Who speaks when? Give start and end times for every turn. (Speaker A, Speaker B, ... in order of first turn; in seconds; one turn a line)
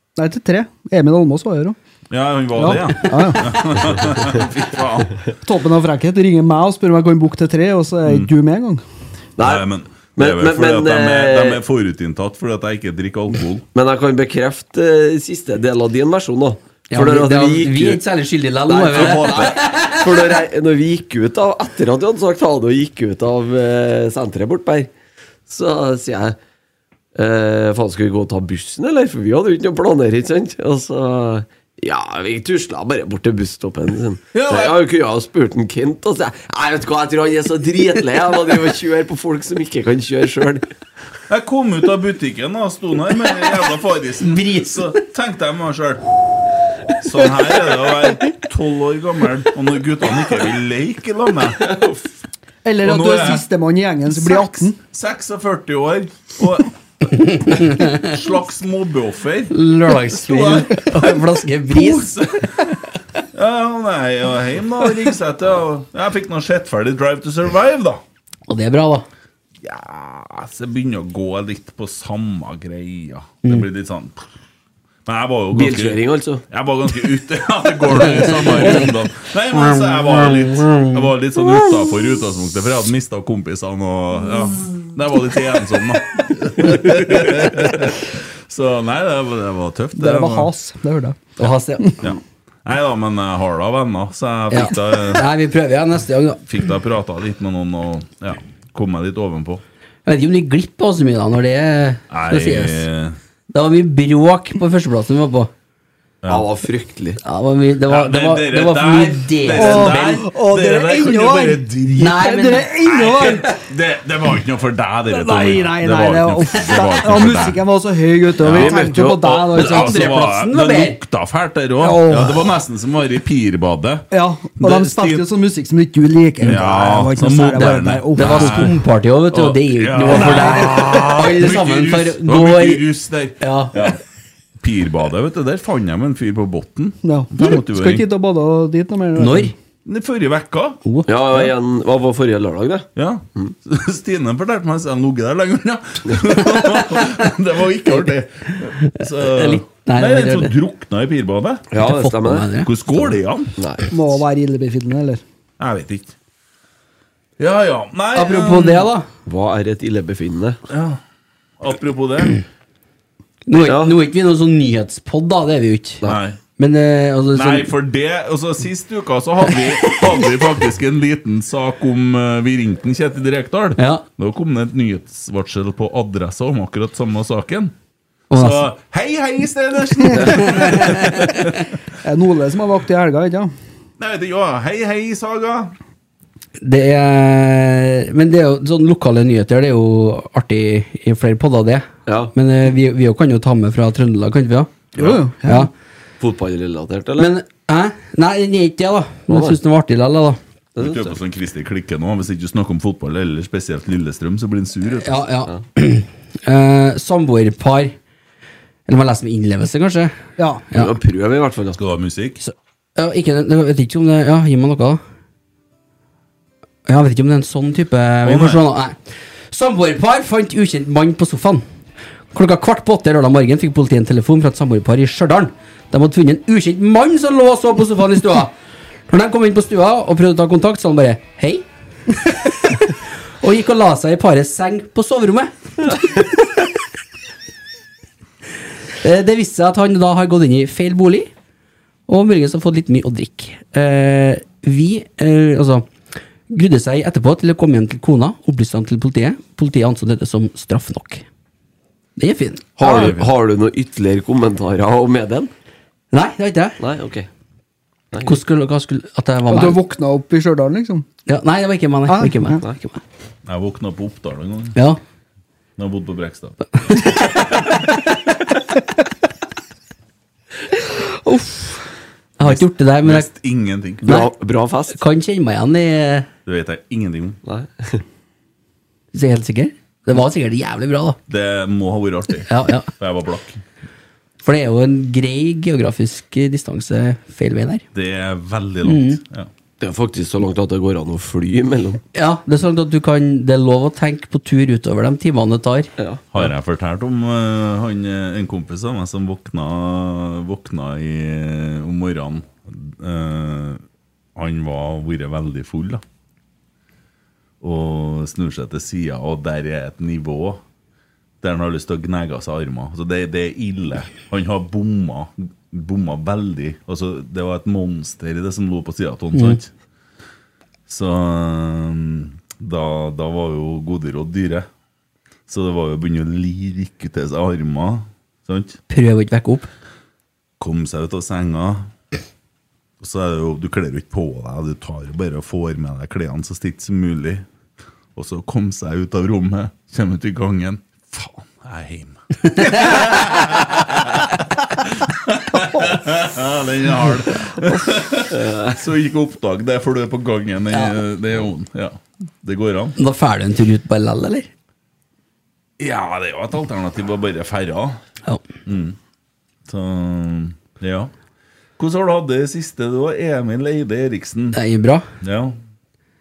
Speaker A: 0.2-1.8
Speaker B: 2.1-5.2
Speaker A: 2.5-3.9
Speaker A: 5.4-8.8
Speaker C: 9.4-11.6
Speaker B: 9.4-13.7
Speaker C: 13.7-18.0
Speaker D: 16.9-20.1
Speaker C: 18.7-24.9
Speaker B: 18.9-19.6
Speaker C: 25.5-26.4
Speaker C: 27.1-40.6
Speaker B: 34.3-34.8
Speaker B: 41.3-46.0
Speaker D: 44.2-44.9
Speaker B: 47.0-51.8
Speaker C: 51.6-51.9
Speaker A: 52.6-54.8
Speaker B: 52.8-53.5
Speaker B: 54.1-59.5
Speaker D: 57.2-58.1
Speaker D: 59.5-62.1
Speaker B: 60.1-60.9
Speaker B: 61.7-62.5
Speaker B: 63.3-68.0
Speaker D: 68.5-69.1
Speaker B: 69.6-74.2
Speaker B: 75.1-90.5
Speaker C: 75.5-76.4
Speaker D: 78.0-78.8
Speaker D: 79.6-81.0
Speaker A: 90.0-92.1
Speaker D: 91.4-92.0
Speaker B: 92.0-95.2
Speaker D: 94.5-96.4
Speaker B: 96.4-99.6
Speaker D: 100.1-102.9
Speaker B: 102.1-103.2
Speaker D: 103.5-105.5
Speaker B: 106.2-106.5
Speaker C: 106.3-107.2
Speaker D: 107.2-110.3
Speaker B: 107.9-112.2
Speaker A: 109.5-113.6
Speaker D: 112.0-112.7
Speaker B: 112.8-117.6
Speaker A: 115.1-120.2
Speaker B: 118.4-124.1
Speaker C: 118.4-119.4
Speaker D: 119.5-121.0
Speaker A: 121.8-122.4
Speaker A: 124.1-128.7
Speaker B: 124.6-125.2
Speaker B: 126.4-128.7
Speaker D: 128.1-132.9
Speaker B: 129.3-134.0
Speaker D: 133.4-133.9
Speaker B: 134.6-138.1
Speaker A: 137.0-139.5
Speaker D: 139.2-139.5
Speaker B: 139.9-141.5
Speaker C: 141.1-143.6
Speaker B: 143.0-151.7
Speaker D: 146.5-147.2
Speaker D: 149.0-150.5
Speaker C: 151.7-152.5
Speaker D: 151.8-152.7
Speaker B: 152.6-153.5
Speaker C: 153.6-153.8
Speaker A: 153.9-155.2
Speaker B: 155.6-156.1
Speaker B: 157.4-158.9
Speaker D: 158.2-159.1
Speaker C: 159.3-160.6
Speaker B: 160.7-161.0
Speaker B: 161.6-162.4
Speaker D: 163.5-166.0
Speaker C: 163.6-163.9
Speaker B: 166.1-166.4
Speaker D: 166.6-167.7
Speaker B: 167.3-177.7
Speaker D: 173.8-174.0
Speaker D: 178.3-178.6
Speaker B: 178.3-181.5
Speaker A: 180.1-180.4
Speaker D: 180.4-181.0
Speaker A: 182.0-183.5
Speaker B: 184.0-185.8
Speaker D: 186.6-194.7
Speaker C: 192.1-192.3
Speaker B: 194.9-195.2
Speaker A: 195.0-195.7
Speaker D: 195.4-195.7
Speaker C: 196.2-197.3
Speaker D: 197.2-200.4
Speaker C: 199.3-199.6
Speaker C: 200.8-201.1
Speaker B: 200.8-205.2
Speaker D: 205.0-208.0
Speaker D: 208.9-210.2
Speaker A: 210.4-210.7
Speaker C: 210.8-211.8
Speaker B: 211.8-212.4
Speaker D: 212.4-215.0
Speaker D: 216.9-219.0
Speaker B: 218.2-218.6
Speaker D: 219.5-221.6
Speaker D: 222.3-228.5
Speaker D: 229.1-231.7
Speaker D: 232.2-236.1
Speaker D: 239.0-241.3
Speaker D: 242.1-245.9
Speaker D: 246.5-251.2
Speaker D: 252.2-252.8
Speaker C: 252.8-255.5
Speaker A: 252.8-253.1
Speaker B: 252.9-253.2
Speaker D: 256.1-256.8
Speaker C: 256.8-257.3
Speaker C: 258.1-258.4
Speaker D: 258.2-259.8
Speaker A: 259.5-261.1
Speaker D: 261.3-263.0
Speaker A: 262.1-262.6
Speaker B: 263.5-264.8
Speaker B: 265.8-266.6
Speaker D: 266.9-267.1
Speaker A: 271.2-271.9
Speaker D: 272.4-273.3
Speaker B: 272.4-274.1
Speaker D: 274.1-274.3
Speaker C: 274.1-275.0
Speaker D: 274.9-276.3
Speaker B: 276.5-277.4
Speaker C: 277.5-278.0
Speaker D: 279.1-281.2
Speaker B: 281.3-283.6
Speaker D: 282.5-282.9
Speaker D: 284.4-287.8
Speaker B: 287.9-289.5
Speaker D: 288.9-289.2
Speaker C: 289.8-292.0
Speaker D: 292.1-295.9
Speaker C: 296.0-296.3
Speaker B: 296.3-303.8
Speaker B: 304.4-306.0
Speaker B: 307.6-310.6
Speaker B: 311.4-319.7
Speaker B: 320.9-324.7
Speaker B: 325.5-328.8
Speaker D: 328.9-329.7
Speaker B: 330.6-331.9
Speaker B: 333.0-337.5
Speaker B: 338.1-353.0
Speaker D: 342.6-343.1
Speaker C: 348.3-348.8
Speaker D: 350.7-351.0
Speaker D: 353.0-354.5
Speaker B: 355.8-358.0
Speaker B: 358.7-359.0
Speaker B: 359.7-361.1
Speaker B: 361.8-364.6
Speaker D: 364.5-365.1
Speaker B: 365.2-365.6